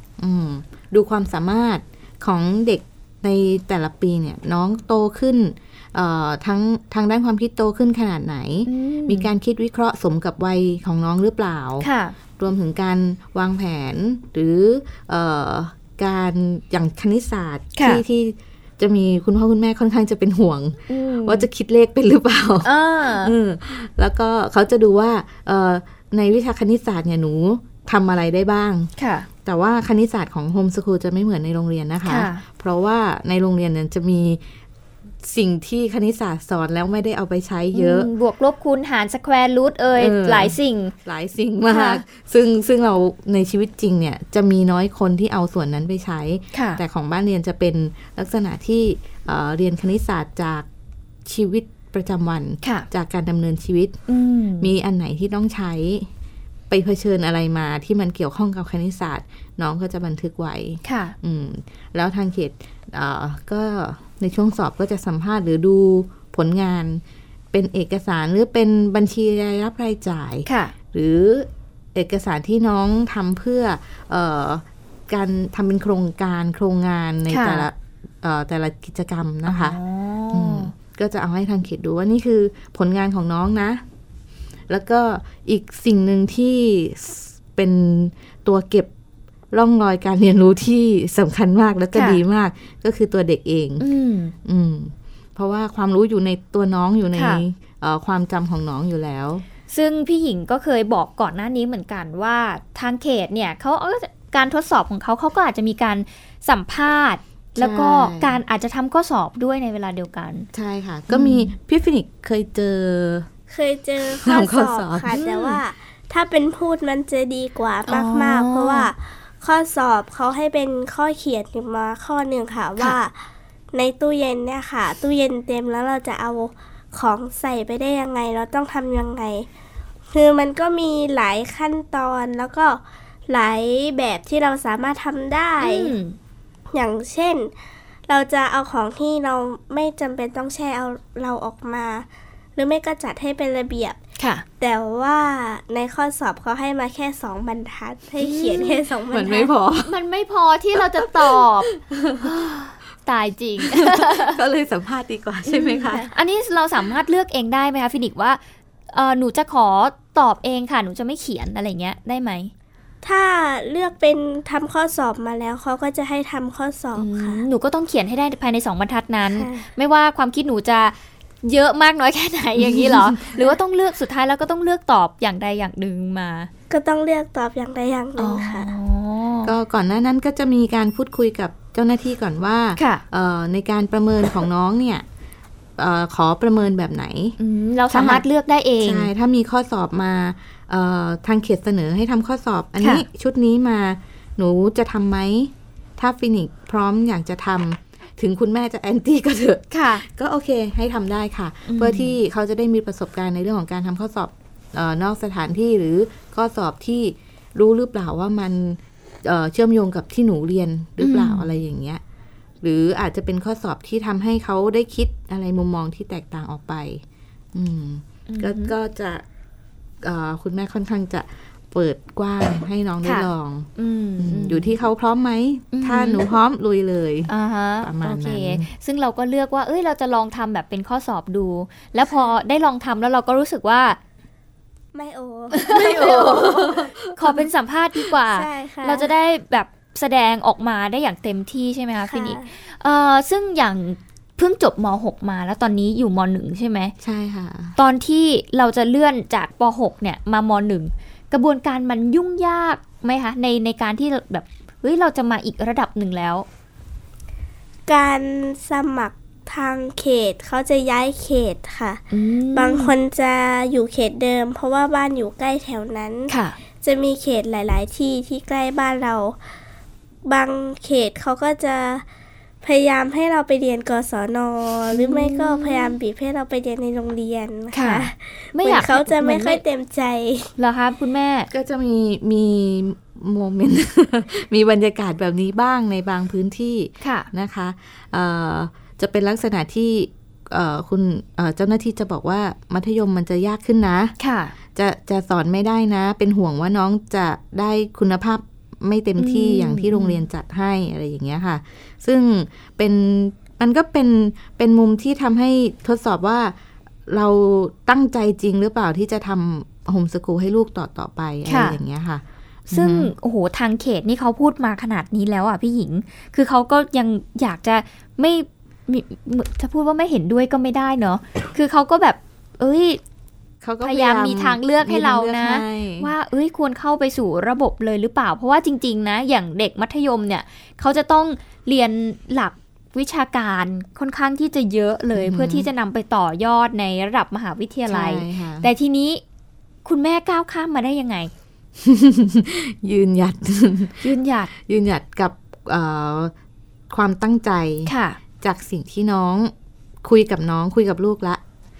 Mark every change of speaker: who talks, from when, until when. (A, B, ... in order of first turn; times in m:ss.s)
0:00.2-0:28.9 A
0:08.6-0:09.3 B
0:11.8-0:12.2 B
0:17.8-0:18.0 B
0:20.9-0:21.5 B
0:22.6-0:23.3 B
0:29.0-0:29.3 B
0:29.4-0:34.4 A
0:32.0-0:32.4 B
0:35.2-0:38.1 A
0:37.7-0:40.9 B
0:40.0-0:50.7 A
0:41.7-0:42.0 B
0:46.5-0:46.8 B
0:51.2-0:54.0 A
0:52.6-0:52.9 B
0:54.1-0:54.7 B
0:54.6-0:56.1 A
0:56.7-1:19.8 A
1:00.8-1:01.1 B
1:10.4-1:10.7 B
1:17.3-1:17.7 B
1:19.4-1:20.7 B
1:20.3-1:23.8 A
1:24.7-1:28.9 A
1:29.5-1:33.8 A
1:31.9-1:32.2 B
1:33.8-1:34.3 B
1:34.4-1:39.4 A
1:37.1-1:37.4 B
1:39.7-1:50.5 B
1:47.6-1:48.4 A
1:50.5-1:53.3 A
1:51.1-1:51.5 B
1:53.5-2:09.5 C
1:54.2-1:55.1 A
1:55.1-1:55.6 B
1:57.9-1:58.9 B
2:10.1-2:15.9 C
2:15.6-2:16.2 B
2:16.7-2:17.5 C
2:18.1-2:24.0 C
2:24.2-2:24.4 B
2:24.6-2:29.5 C
2:28.2-2:28.8 B
2:29.1-2:29.9 A
2:29.8-2:34.4 B
2:30.8-2:32.3 A
2:33.6-2:36.1 A
2:35.5-2:38.4 B
2:38.9-2:42.5 B
2:43.0-2:47.4 C
2:47.0-2:56.5 B
2:49.3-2:49.6 C
2:52.6-2:53.3 A
2:56.7-2:58.7 C
2:58.2-2:59.5 B
2:59.4-3:05.0 A
3:02.8-3:03.0 B
3:05.8-3:07.4 A
3:07.4-3:09.1 B
3:07.9-3:08.2 A
3:08.8-3:32.0 A
3:19.7-3:20.0 B
3:21.7-3:22.1 B
3:31.0-3:31.5 B
3:32.6-3:39.2 A
3:38.3-3:38.7 B
3:40.0-3:47.3 A
3:43.0-3:44.7 B
3:45.7-3:46.2 B
3:47.3-3:54.0 B
3:47.8-3:48.7 A
3:54.9-3:57.2 C
3:55.5-4:06.9 B
3:55.9-3:56.8 A
3:58.2-3:59.1 C
4:02.1-4:02.5 C
4:07.0-4:07.8 A
4:07.8-4:16.4 B
4:17.9-4:29.4 C
4:22.1-4:22.9 B
4:26.3-4:26.6 B
4:30.2-4:32.0 C
4:32.6-4:40.5 C
4:34.9-4:35.9 B
4:37.7-4:39.6 B
4:40.6-4:41.5 B
4:41.5-4:54.1 A
4:47.0-4:47.3 B
4:54.2-4:54.5 B
4:54.7-5:06.5 A
4:59.2-5:00.2 B
5:07.1-5:13.1 A
5:11.4-5:11.8 B
5:12.7-5:23.0 B
5:23.6-5:26.1 A
5:23.8-5:39.2 B
5:35.1-5:35.7 A
5:37.9-5:38.7 A
5:39.8-5:41.3 B
5:41.8-5:46.3 A
5:44.0-5:44.5 B
5:46.9-5:49.5 A
5:47.8-5:48.2 B
5:50.0-5:51.4 A